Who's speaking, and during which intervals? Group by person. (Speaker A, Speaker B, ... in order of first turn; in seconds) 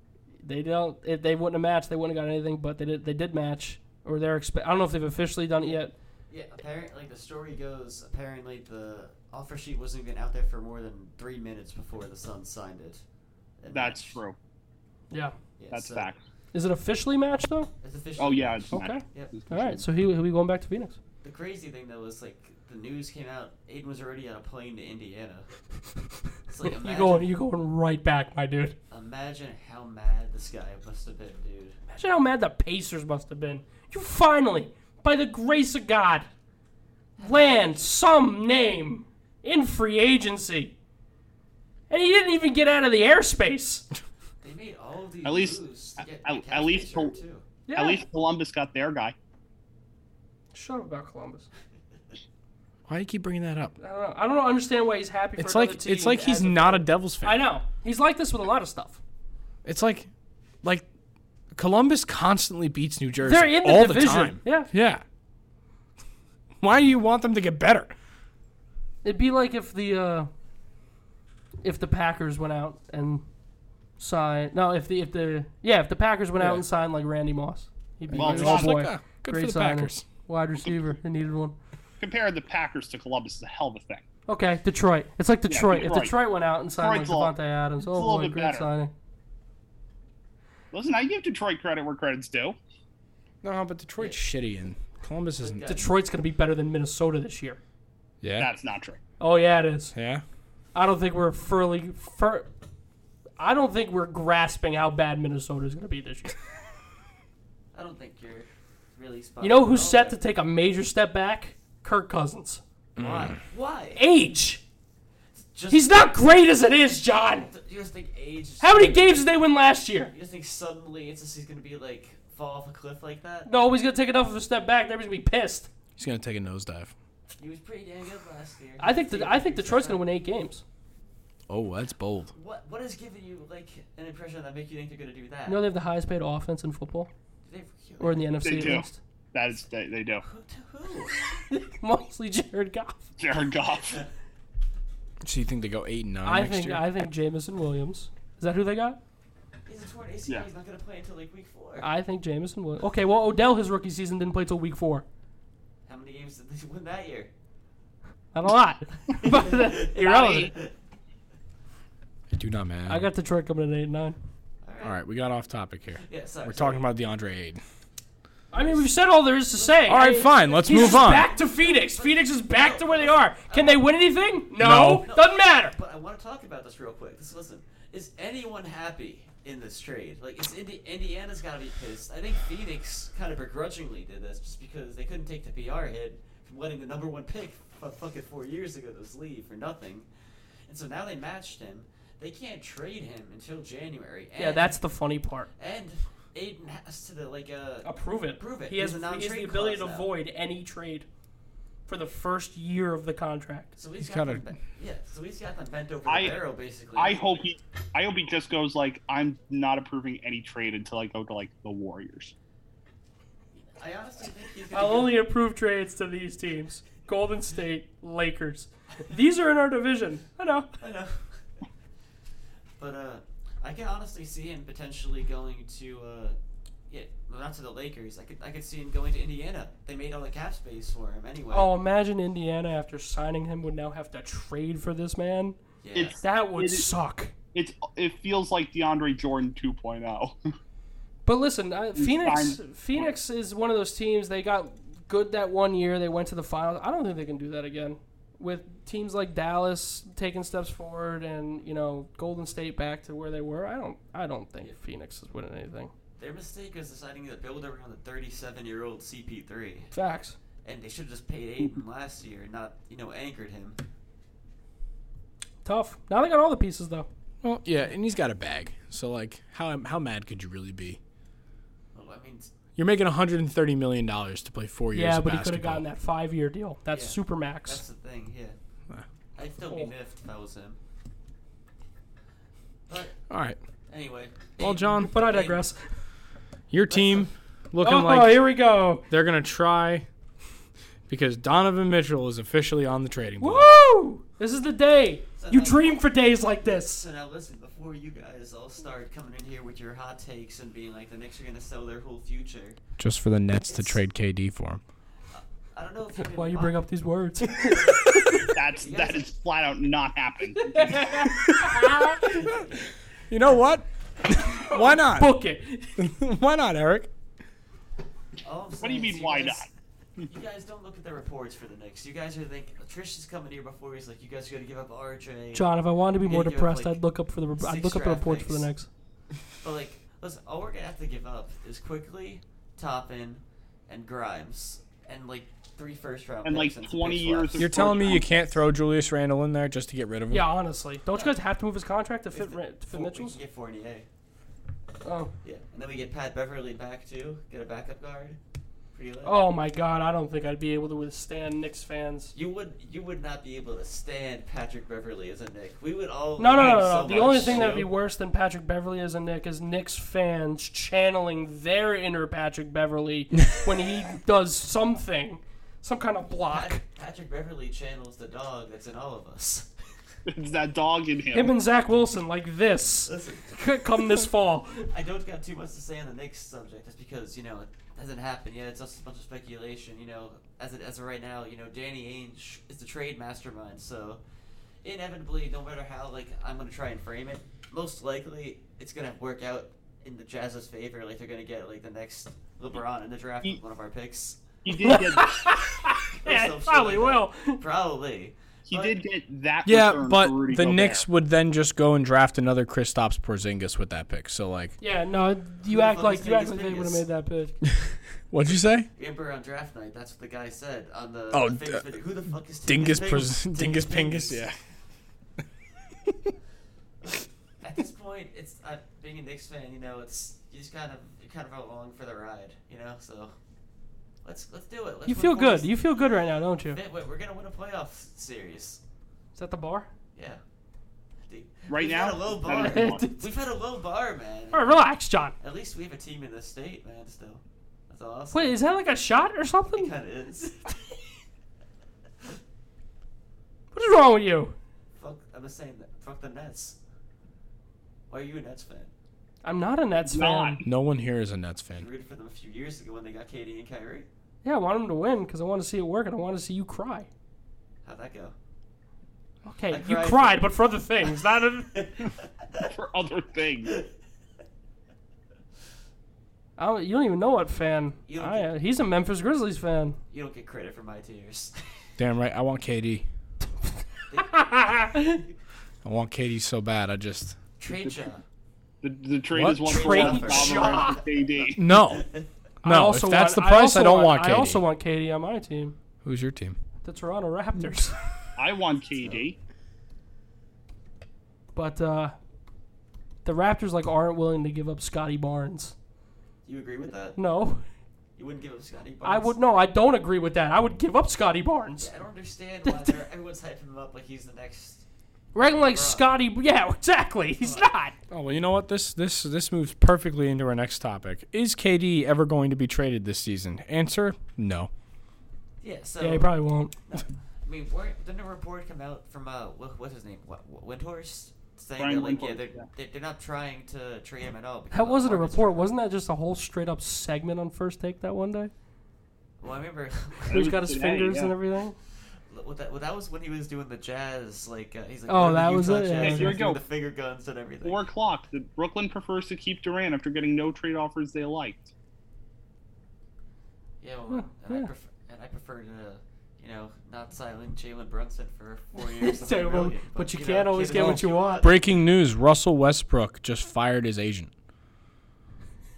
Speaker A: 0.4-5.9, 15.1-15.3, 16.5-17.7, 18.7-21.0, 26.7-28.8, 31.9-36.3, 37.2-40.7, 41.9-43.8, 47.7-48.0, 50.5-51.5, 53.8-59.0, 63.2-64.7, 69.0-70.3, 71.6-73.2, 74.0-81.5, 84.3-88.9, 95.6-97.6, 99.2-99.9, 100.7-102.5, 103.4-106.4, 109.4-112.6, 114.0-114.6, 115.7-117.5, 118.6-120.1, 123.5-125.7, 128.8-130.6, 135.4-137.1, 138.0-139.0, 141.5-143.0, 146.2-149.0, 151.8-155.0, 158.3-160.5, 162.9-164.2, 168.5-175.8, 194.4-195.5, 197.8-201.1, 201.9-203.7, 214.7-220.7, 231.5-235.6, 236.2-237.3, 241.2-255.9, 259.9-260.4, 265.6-267.1, 274.9-277.8, 285.0-285.8, 287.8-289.1, 293.4-297.0, 306.2-308.5, 310.6-312.4, 314.4-316.0, 325.5-328.9, 340.3-343.4, 345.0-345.3, 349.2-352.3, 356.4-366.8, 371.3-374.9, 394.8-397.6, 404.8-407.5, 425.1-426.8, 429.4-429.9, 432.6-433.2, 434.5-435.3, 438.3-439.9, 443.7-444.5, 449.4-450.6, 454.4-457.1, 459.4-461.8, 466.6-470.0, 474.1-475.2, 479.7-481.0, 482.6-485.8, 486.8-487.9, 491.5-492.1, 493.2-495.7, 497.1-497.6, 499.0-501.9, 502.6-502.9, 505.3-507.9, 516.0-516.7, 524.7-528.5, 530.3-531.8, 535.1-536.4, 544.1-544.7, 548.8-551.5
Speaker B: 5.6-13.0, 13.6-14.2, 15.6-16.1, 17.8-19.4, 21.2-25.5, 26.5-27.3, 28.9-31.8, 37.2-37.9, 44.4-47.4, 95.4-95.9, 107.7-110.2, 113.0-114.0, 115.3-116.1, 117.3-119.4, 120.1-123.5, 127.4-130.0, 132.3-135.6, 137.4-138.7, 140.2-141.3, 149.7-151.9, 155.9-157.3, 159.1-160.7, 164.6-165.0, 166.0-166.9, 168.5-168.9, 169.6-174.1, 175.1-190.1, 190.6-194.8, 195.6-200.1, 203.8-207.4, 213.7-215.2, 220.8-221.4, 222.8-226.4, 226.9-231.7, 235.8-236.2, 256.2-259.9, 260.6-263.8, 271.9-272.5, 276.9-278.6, 279.3-280.8, 282.9-283.2, 283.9-285.6, 286.9-287.3, 295.4-296.0, 296.6-302.8, 303.7-304.0, 305.3-306.8, 307.6-309.3, 310.9-311.2, 312.2-312.9, 318.4-319.7, 320.3-325.7, 326.2-327.0, 327.6-328.7, 329.6-337.9, 341.1-341.4, 342.3-344.1, 345.4-348.4, 348.9-349.4, 352.3-357.9, 366.5-369.7, 373.1-373.6, 374.9-384.2, 384.8-395.2, 396.1-399.0, 405.7-407.0, 408.9-414.5, 417.6-423.4, 424.2-428.8, 430.1-430.4, 431.2-434.8, 435.4-438.6, 439.7-440.7, 444.9-446.8, 448.1-448.9, 451.7-454.1, 457.8-458.3, 459.7-460.5, 461.7-462.7, 468.1-468.5, 470.1-471.9, 474.1-474.4, 477.6-478.2, 479.6-481.1, 481.9-482.2, 488.9-489.3, 496.4-497.2, 498.2-499.3, 501.8-504.8, 505.4-506.1, 507.4-507.7, 515.6-516.3, 516.9-525.7, 529.4-530.5, 532.3-537.9, 543.8-551.7
Speaker C: 13.7-14.3, 15.7-16.2, 18.2-19.8, 45.2-47.2, 47.7-49.1, 78.1-78.8, 82.0-84.0, 85.5-86.2, 86.8-88.7, 90.7-92.6, 98.4-99.0, 138.4-140.2, 143.2-144.0, 160.0-160.5, 206.1-206.4, 206.9-212.3, 235.9-236.9, 237.5-240.4, 241.9-243.0, 308.5-311.2, 318.8-320.3, 336.4-338.4, 370.3-371.5, 394.6-395.3, 398.7-401.1, 431.7-433.1, 450.0-450.6, 462.7-463.8, 477.8-478.1, 478.8-481.6, 488.4-489.4, 521.8-522.7, 530.3-531.3, 536.0-536.6, 537.6-541.7
Speaker D: 52.9-53.7, 55.4-57.4, 59.6-60.1, 61.5-65.0, 66.6-67.9, 76.4-76.6, 78.1-80.0, 93.4-95.7, 98.2-98.5, 99.9-100.2, 113.0-113.3, 126.0-126.9, 131.5-132.3, 145.2-146.8, 162.3-163.1, 164.8-167.6, 169.9-171.3, 174.6-175.1, 204.0-204.4, 267.4-271.0, 272.8-275.8, 283.3-283.6, 284.6-285.1, 286.7-288.4, 289.1-290.1, 291.1-293.7, 303.0-304.8, 311.3-312.6, 313.3-315.4, 316.0-317.1, 337.6-340.5, 357.2-357.7, 399.6-404.7, 408.3-408.9, 411.3-411.8, 412.7-414.6, 416.0-416.3, 450.6-451.9, 472.0-473.0, 475.8-477.4, 479.3-479.9, 481.5-482.1, 482.6-484.6, 486.0-486.6, 508.1-514.7, 550.7-554.3